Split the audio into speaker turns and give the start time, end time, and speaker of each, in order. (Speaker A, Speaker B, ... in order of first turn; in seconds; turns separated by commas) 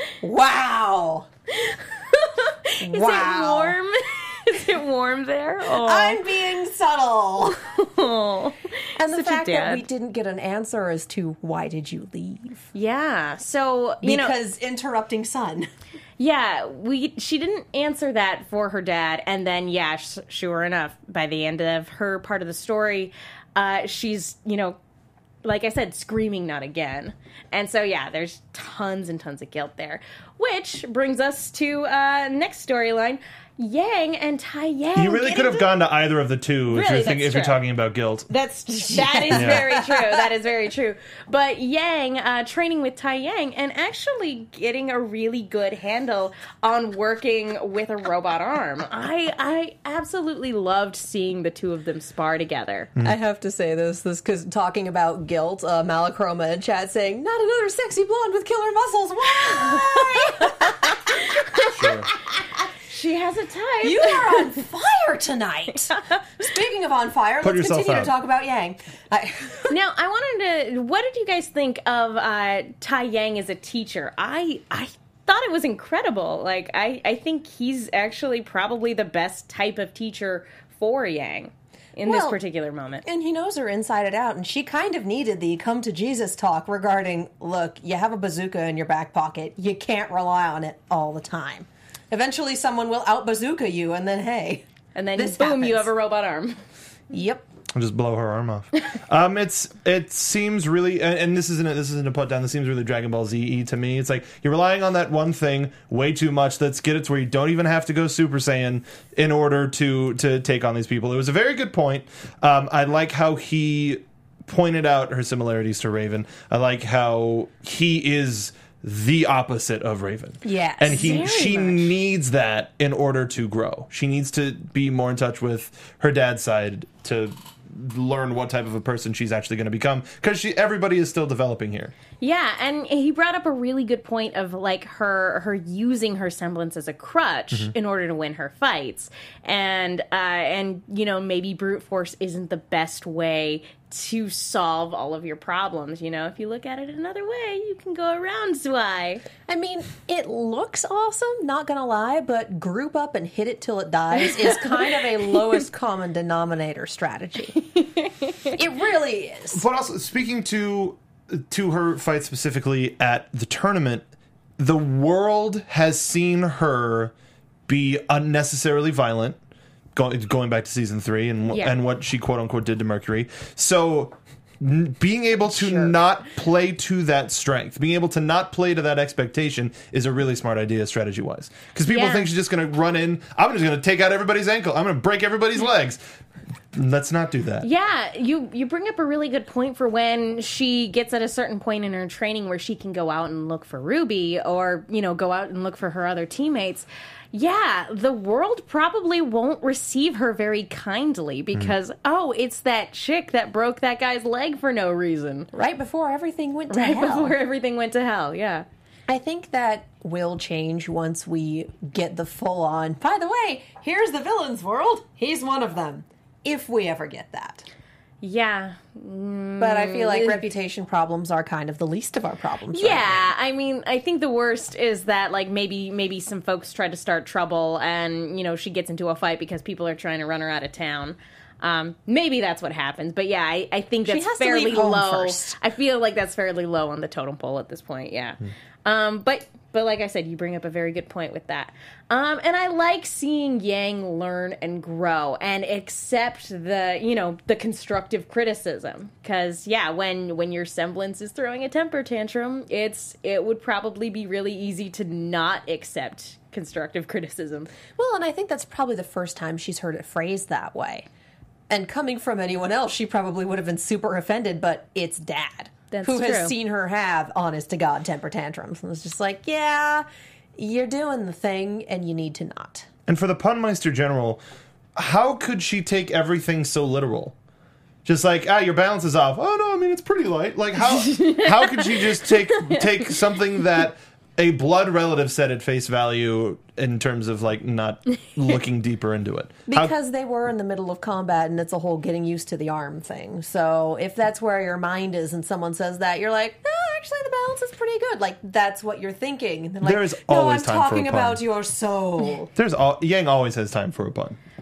Speaker A: 0.2-1.3, Speaker B: 1.5-6.2, Speaker A: 2.8-3.8, Speaker A: 5.7-7.6, Speaker B: 7.8-9.8, Speaker A: 9.0-12.7, Speaker B: 12.7-14.3, Speaker A: 14.0-15.7, Speaker B: 16.2-24.8, Speaker B: 25.4-35.7, Speaker C: 35.0-38.3, Speaker B: 36.7-37.6, Speaker B: 38.3-52.9, Speaker A: 38.9-40.2, Speaker C: 39.3-39.6, Speaker A: 53.0-62.7, Speaker B: 59.4-61.7, Speaker C: 61.7-62.1, Speaker B: 62.9-64.5, Speaker A: 63.8-69.7, Speaker C: 67.4-68.1, Speaker B: 69.7-83.0, Speaker A: 82.0-82.4, Speaker A: 83.0-95.9, Speaker B: 95.0-96.6, Speaker A: 97.1-97.4, Speaker C: 97.7-131.9, Speaker A: 120.4-121.3, Speaker B: 120.9-121.9, Speaker B: 132.2-149.2, Speaker A: 149.5-157.6, Speaker B: 157.6-158.5, Speaker A: 158.5-159.7, Speaker C: 159.5-164.0, Speaker C: 164.6-167.1, Speaker C: 167.7-169.4, Speaker C: 169.9-186.0, Speaker B: 171.5-171.8, Speaker A: 175.5-176.0, Speaker B: 181.9-182.3, Speaker C: 186.7-187.7, Speaker B: 187.6-205.5, Speaker A: 205.5-207.3, Speaker B: 206.7-208.7, Speaker A: 209.1-217.7, Speaker B: 218.2-220.4, Speaker A: 219.6-223.3, Speaker B: 222.7-257.7, Speaker A: 234.1-235.6, Speaker A: 258.0-261.1, Speaker A: 261.7-270.1, Speaker B: 265.9-266.5, Speaker A: 270.6-272.9, Speaker C: 273.1-274.4, Speaker C: 275.0-277.4, Speaker C: 278.1-289.9, Speaker B: 280.8-283.1, Speaker A: 289.7-302.5, Speaker C: 299.8-301.4, Speaker C: 302.6-304.4